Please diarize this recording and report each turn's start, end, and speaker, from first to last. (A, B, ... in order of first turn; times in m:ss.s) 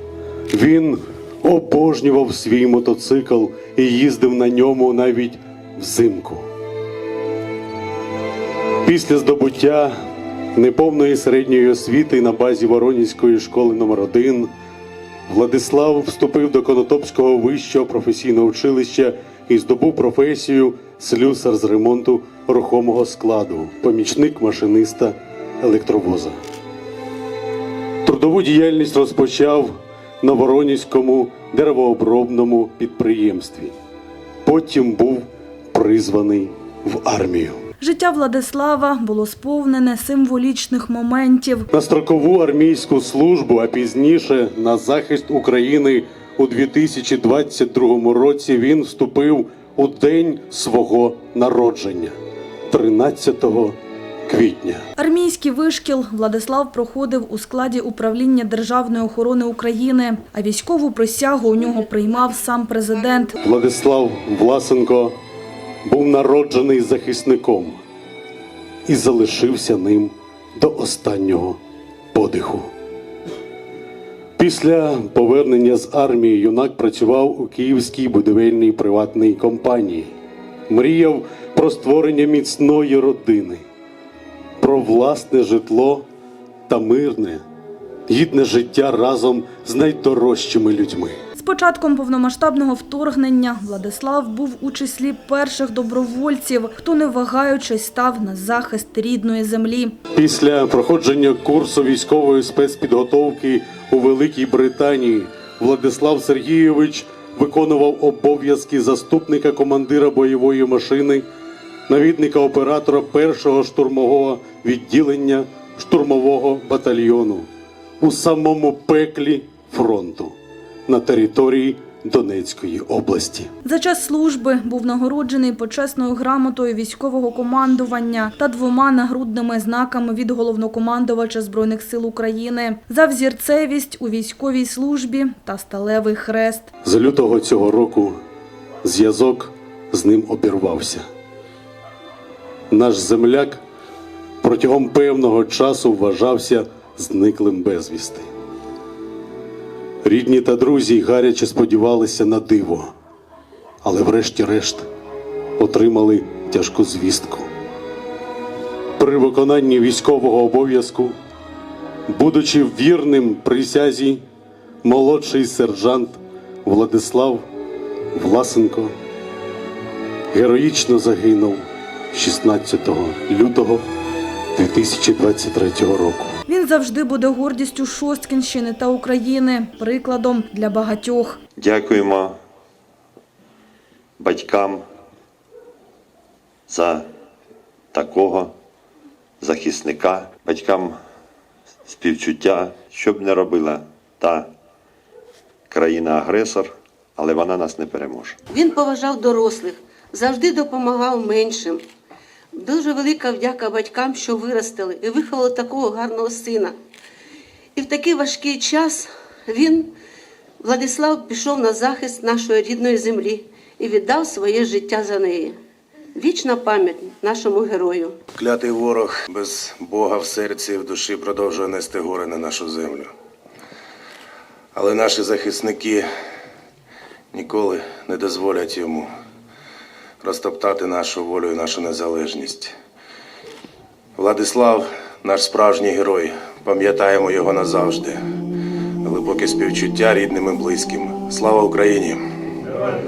0:00.5-0:06.5 A
0:08.8-0:09.9 A
0:10.6-0:14.5 A
0:15.3-0:26.4 A
0:28.0-0:33.8 A
0:34.4-0:37.6 A
0:37.8-0:41.7 B
0:41.7-0:52.1 A
0:52.7-0:53.8 A
0:54.3-0:54.9 A
0:55.0-1:03.4 B
1:03.4-1:05.2 A
1:05.8-1:07.8 A
1:08.9-1:11.6 A
1:12.1-1:12.7 A
1:14.4-1:20.1 A
1:20.7-1:23.6 A
1:24.6-1:26.0 A
1:26.7-1:27.4 A
1:28.1-1:31.2 A
1:31.4-1:40.0 B
1:40.1-1:51.2 A
1:51.9-1:57.5 A
1:58.0-2:00.4 A
2:00.9-2:03.5 A
2:03.6-2:16.7 B
2:16.8-2:18.2 A
2:18.8-2:21.1 A
2:22.7-2:23.6 A
2:24.4-2:28.3 A
2:30.0-2:32.9 A
2:33.8-2:34.9 A
2:35.6-2:37.5 A
2:39.0-2:41.2 A
2:42.1-2:44.2 A
2:44.8-2:47.4 A
2:48.2-2:49.0 A
2:50.3-2:53.8 A
2:54.6-2:56.3 A
2:56.5-3:01.4 B
3:01.6-3:02.4 C
3:04.2-3:04.8 C
3:06.7-3:07.1 C
3:07.9-3:08.5 C
3:09.4-3:11.0 C
3:11.9-3:14.5 C
3:15.7-3:18.4 C
3:18.5-3:21.8 D
3:22.5-3:26.8 D
3:27.8-3:29.9 D
3:30.6-3:35.6 D
3:36.2-3:38.2 D
3:38.4-3:43.1 E
3:44.7-3:46.1 E
3:47.3-3:49.1 E
3:50.2-3:52.8 E
3:54.2-3:58.2 E
3:59.0-4:02.2 E